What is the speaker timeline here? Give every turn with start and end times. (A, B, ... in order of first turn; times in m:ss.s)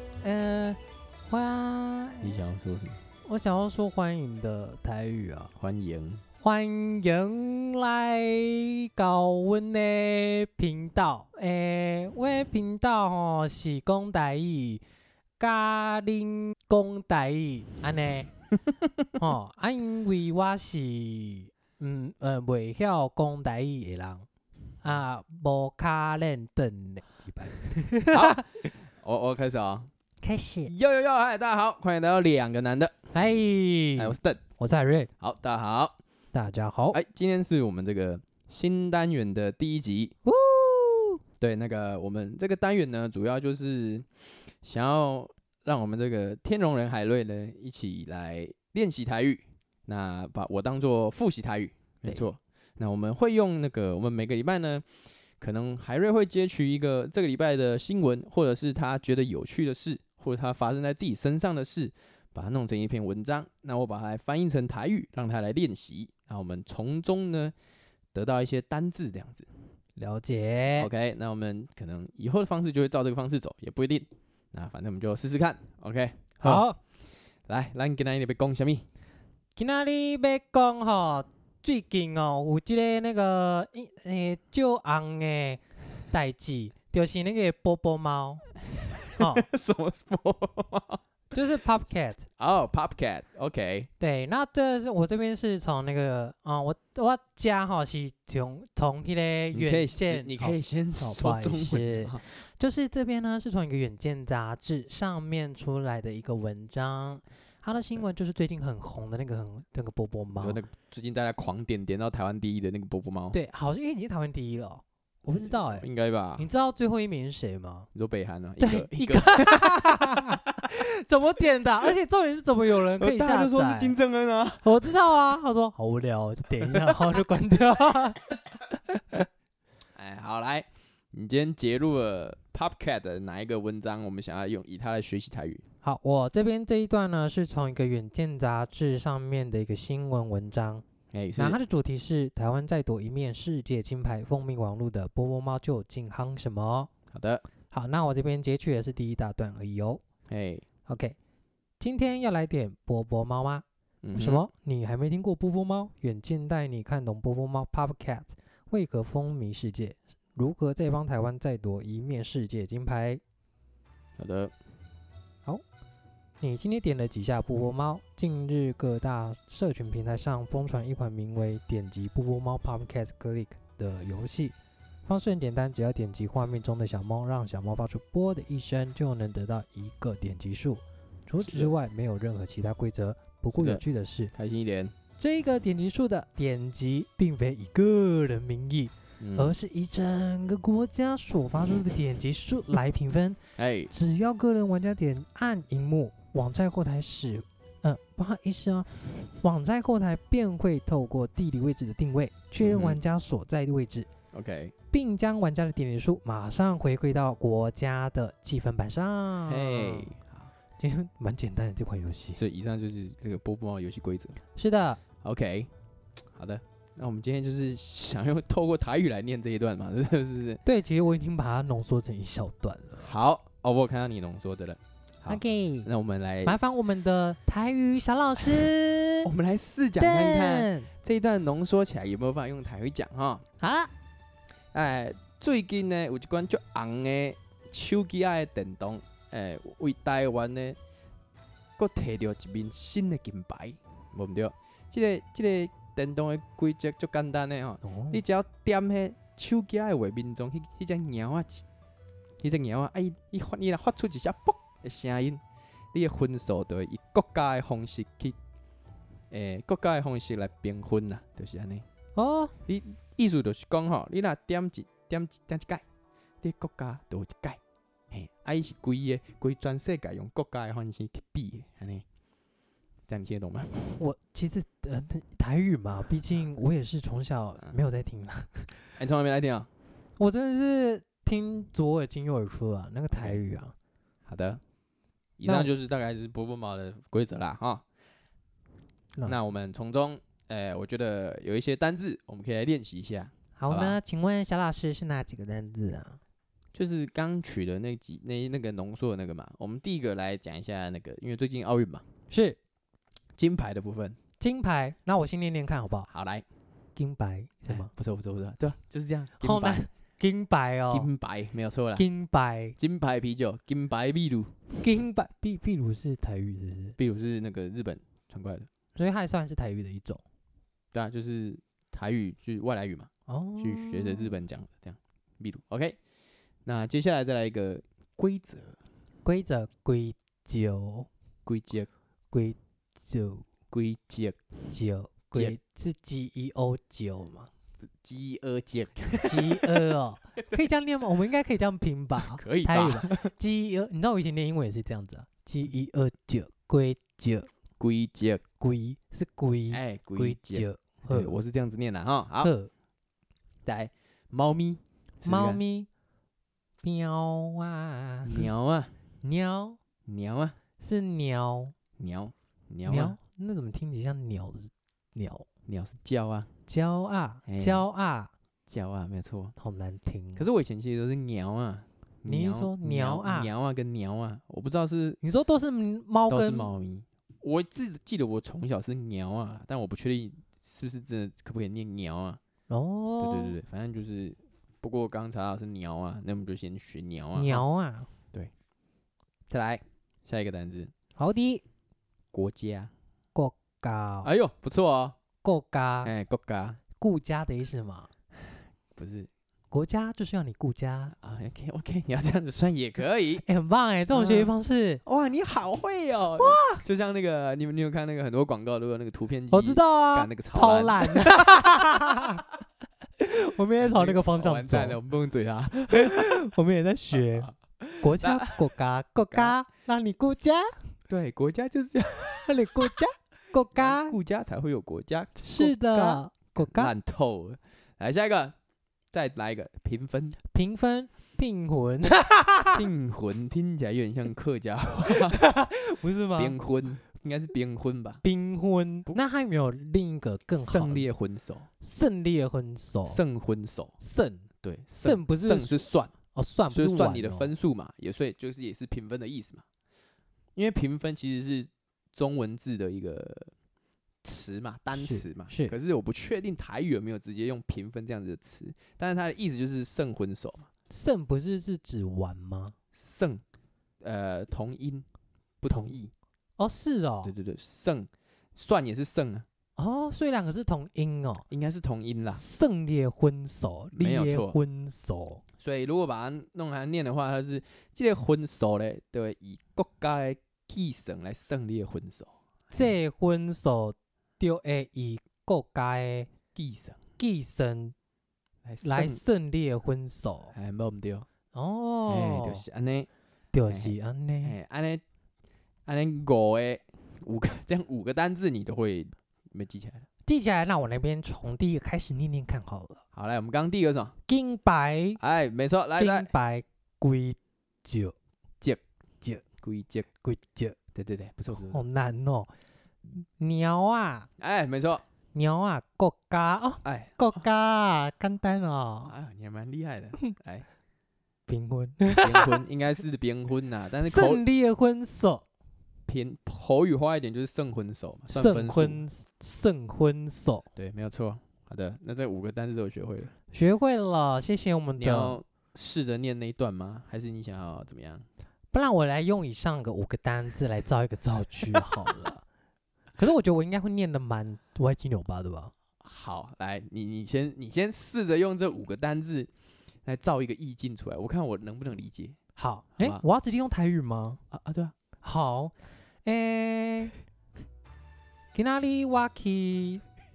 0:00.2-0:02.4 A
0:02.2-0:03.0 B
0:03.2-0:05.5 A
0:05.6-0:06.2 B
0:06.4-0:14.8 A
0:15.4-0:18.3 A
0:19.2-0:24.3 A
0:24.8-0:28.4 A
0:28.1-0:29.9 B
0:30.2-0:30.7 A
0:30.6-0:32.9 B
0:33.1-0:35.1 A
0:34.0-0:34.4 B
0:35.2-0:36.0 B
0:36.3-0:37.0 A
0:36.9-0:40.2 B
0:40.3-0:41.2 A
0:41.4-0:44.1 B
0:44.6-0:54.9 B
0:55.4-1:07.5 B
1:08.1-1:09.5 B
1:10.0-1:10.9 A
1:10.8-1:16.6 B
1:16.4-1:16.8 A
1:17.5-1:18.8 B
1:19.6-1:28.5 A
1:29.0-1:31.0 B
1:29.2-1:29.5 A
1:31.3-1:32.3 A
1:32.4-1:33.9 B
1:34.0-1:50.6 A
1:39.5-1:42.2 B
1:50.4-1:53.4 B
1:53.3-1:55.9 A
1:55.4-1:56.5 B
1:56.4-1:57.9 A
1:58.0-2:00.4 B
1:58.6-2:04.0 A
2:02.7-2:04.8 B
2:04.6-2:08.3 A
2:06.7-2:07.0 B
2:10.0-2:15.6 B
2:15.8-2:20.8 A
2:21.1-2:21.6 B
2:21.4-2:26.9 A
2:27.1-2:27.4 B
2:27.7-2:30.0 A
2:30.3-2:30.6 B
2:30.9-2:31.2 A
2:31.8-2:43.2 A
2:34.0-2:34.4 B
2:44.2-2:44.5 B
2:46.4-3:04.3 A
3:01.4-3:01.7 B
3:03.5-3:03.8 B
3:04.3-3:05.0 B
3:05.2-3:13.4 A
3:09.2-3:09.5 B
3:13.6-3:13.9 B
3:13.9-3:24.1 A
3:22.6-3:23.0 B
3:24.3-3:24.7 B
3:24.9-3:30.1 A
3:29.5-3:30.5 B
3:30.8-3:32.4 A
3:32.3-3:34.4 B
3:34.6-3:35.0 A
3:35.2-3:35.7 B
3:36.4-3:40.6 B
3:40.6-3:43.1 A
3:43.0-3:46.6 B
3:45.3-3:45.9 A
3:46.4-3:49.3 A
3:49.2-3:53.4 B
3:50.0-3:50.9 A
3:53.6-3:53.9 A
3:54.7-4:00.8 B
4:01.8-4:11.6 B
4:07.8-4:08.2 A
4:12.4-4:15.4 B
4:15.9-4:18.4 B
4:19.3-4:21.9 B
4:22.2-4:22.5 A
4:22.7-4:25.8 B
4:26.4-4:27.6 B
4:28.1-4:32.0 B
4:33.1-4:34.0 B
4:34.0-4:38.8 A
4:39.0-4:39.7 B
4:40.2-4:43.7 A
4:43.2-4:43.4 B
4:44.3-4:44.6 B
4:45.4-4:47.8 B
4:45.4-4:45.7 A
4:49.2-4:54.0 B
4:53.6-4:56.2 A
4:56.7-5:02.0 B
5:02.3-5:02.6 A
5:03.4-5:04.2 B
5:04.4-5:06.1 A
5:06.1-5:06.4 B
5:07.0-5:07.9 A
5:07.7-5:09.9 B
5:09.4-5:11.1 A
5:10.9-5:12.1 B
5:12.0-5:12.8 A
5:12.8-5:14.6 B
5:14.8-5:17.0 A
5:17.0-5:18.7 B
5:19.0-5:20.2 A
5:20.9-5:26.0 B
5:23.3-5:24.4 A
5:26.7-5:28.8 B
5:29.2-5:31.1 A
5:31.5-5:31.9 B
5:32.3-5:33.5 A
5:33.7-5:34.4 B
5:34.7-5:37.5 A
5:37.9-5:39.9 B
5:39.2-5:47.5 A
5:42.2-5:43.3 B
5:47.8-5:48.4 B
5:48.6-5:51.4 A
5:49.7-5:52.5 B
5:52.4-5:52.7 A
5:53.6-5:55.6 B
5:55.2-5:55.9 A
5:56.8-5:58.5 A
5:58.2-5:58.9 B
5:59.2-5:59.8 A
6:00.1-6:00.6 B
6:00.8-6:01.7 A
6:02.0-6:03.2 B
6:02.8-6:05.5 A
6:05.7-6:06.5 B
6:06.7-6:08.3 A
6:07.5-6:07.8 B
6:08.7-6:09.6 B
6:09.6-6:10.5 A
6:10.4-6:15.2 B
6:12.3-6:13.5 A
6:15.2-6:16.7 A
6:16.3-6:22.4 B
6:22.7-6:23.6 A
6:23.2-6:27.6 B
6:27.4-6:28.1 A
6:29.5-6:30.9 B
6:31.2-6:31.6 A
6:32.3-6:32.9 B
6:33.4-6:34.3 A
6:34.2-6:35.2 B
6:35.4-6:36.1 A
6:36.0-6:36.8 B
6:37.0-6:38.1 A
6:39.0-6:39.3 B
6:39.7-6:41.2 A
6:41.2-6:43.4 B
6:43.4-6:45.0 A
6:44.1-6:44.5 B
6:45.0-6:51.8 B
6:46.4-6:46.8 A
6:49.5-6:52.5 A
6:53.2-6:55.0 A
6:53.8-6:56.4 B
6:55.9-7:00.8 A
6:57.1-6:58.6 B
7:01.1-7:02.9 B
7:02.4-7:04.2 A
7:03.8-7:08.6 B
7:05.4-7:06.9 A
7:09.1-7:10.4 B
7:10.5-7:12.8 A
7:12.7-7:15.4 B
7:15.3-7:16.6 A
7:16.4-7:18.2 B
7:18.2-7:21.1 A
7:20.6-7:21.7 B
7:21.8-7:23.2 A
7:23.1-7:24.0 B
7:24.0-7:24.5 A
7:24.6-7:26.1 B
7:25.0-7:27.5 A
7:26.7-7:29.6 B
7:30.6-7:33.5 B
7:34.2-7:40.7 B
7:34.9-7:35.7 A
7:40.9-7:42.8 A
7:42.9-7:43.4 B
7:44.0-7:45.1 B
7:45.6-7:46.1 B
7:45.7-7:46.0 A
7:46.6-7:47.3 A
7:47.2-7:49.5 B
7:49.8-7:51.4 A
7:51.5-7:52.4 B
7:52.3-7:55.4 A
7:54.0-7:54.6 B
7:55.6-8:02.9 B
8:02.7-8:06.3 A
8:06.6-8:07.0 B
8:07.2-8:08.0 A
8:08.6-8:09.2 B
8:08.8-8:10.5 A
8:10.5-8:11.3 B
8:11.5-8:12.6 A
8:12.1-8:13.1 B
8:13.5-8:14.6 A
8:13.7-8:15.0 B
8:15.9-8:20.1 B
8:20.3-8:23.0 A
8:23.1-8:24.2 B
8:24.3-8:25.2 A
8:25.2-8:26.3 B
8:26.0-8:28.2 A
8:29.6-8:30.1 B
8:30.2-8:30.8 A
8:31.0-8:31.8 B
8:31.7-8:32.5 A
8:33.2-8:34.3 A
8:34.4-8:35.0 B
8:35.3-8:39.1 A
8:36.8-8:37.3 B
8:39.1-8:40.6 B
8:41.5-8:42.6 A
8:42.2-8:44.4 B
8:44.0-8:45.4 A
8:46.1-8:49.0 B
8:48.3-8:50.7 A
8:50.8-8:53.3 B
8:53.5-8:55.4 A
8:55.0-8:58.3 B
8:58.7-9:02.4 A
9:03.2-9:05.7 A
9:06.0-9:09.5 B
9:10.0-9:12.4 B
9:12.6-9:14.4 A
9:13.0-9:13.2 B
9:14.5-9:14.9 B
9:15.2-9:15.7 A
9:16.2-9:17.2 A
9:18.5-9:20.0 A